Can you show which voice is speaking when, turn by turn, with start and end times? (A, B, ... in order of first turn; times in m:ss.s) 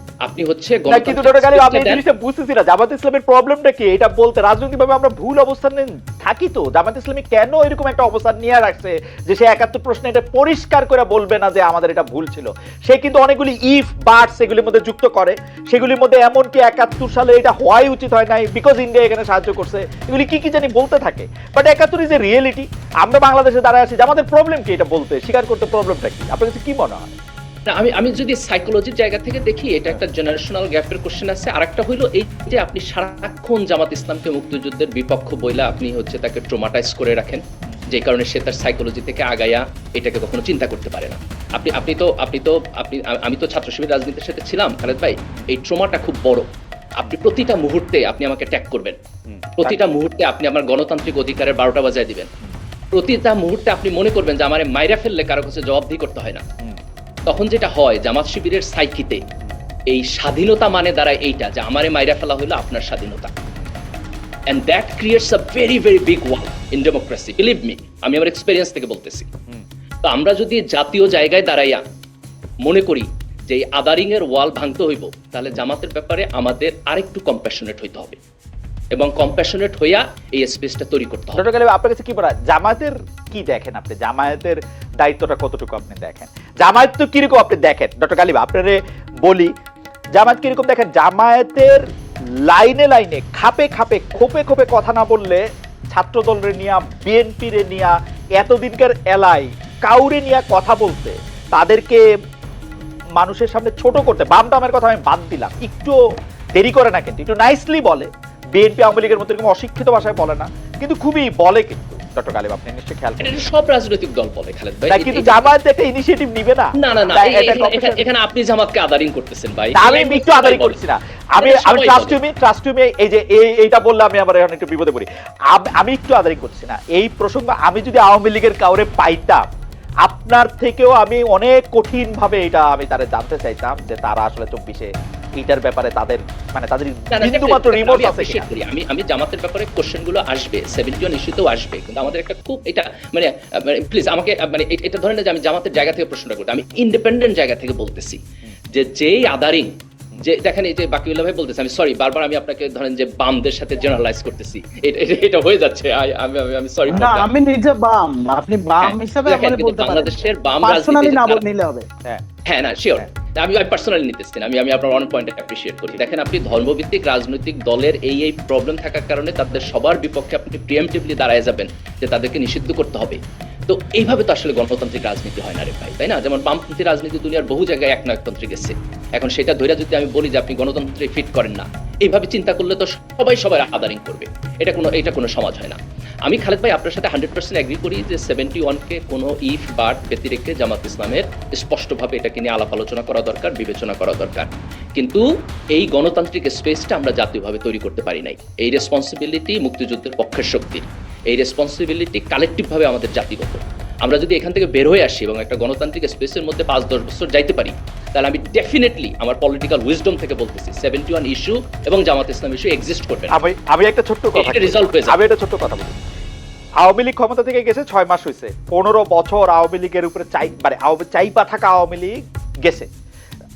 0:00.2-0:02.0 A
0:00.9-0:27.1 B
0:27.7-0:46.5 A
0:47.0-0:49.0 A
0:49.3-0:49.8 B
0:49.6-0:52.3 A
0:52.9-0:56.4 A
0:57.3-0:59.2 A
0:59.9-1:03.3 A
1:04.5-1:09.3 A
1:10.0-1:11.8 A
1:12.6-1:18.2 A
1:18.9-1:21.4 A
1:21.4-1:29.5 B
1:30.2-1:31.8 B
1:32.4-1:42.0 B
1:43.2-1:46.0 B
1:46.6-1:53.4 B
1:53.2-1:55.5 A
1:54.9-1:58.0 B
1:56.8-2:00.8 A
1:59.8-2:09.4 B
2:01.4-2:02.2 A
2:10.0-2:18.4 B
2:17.1-2:28.2 A
2:28.7-2:37.3 A
2:36.9-2:41.9 C
2:38.8-2:41.4 A
2:42.5-3:33.4 A
3:33.3-3:36.0 B
3:34.4-3:35.2 A
3:36.8-3:42.2 B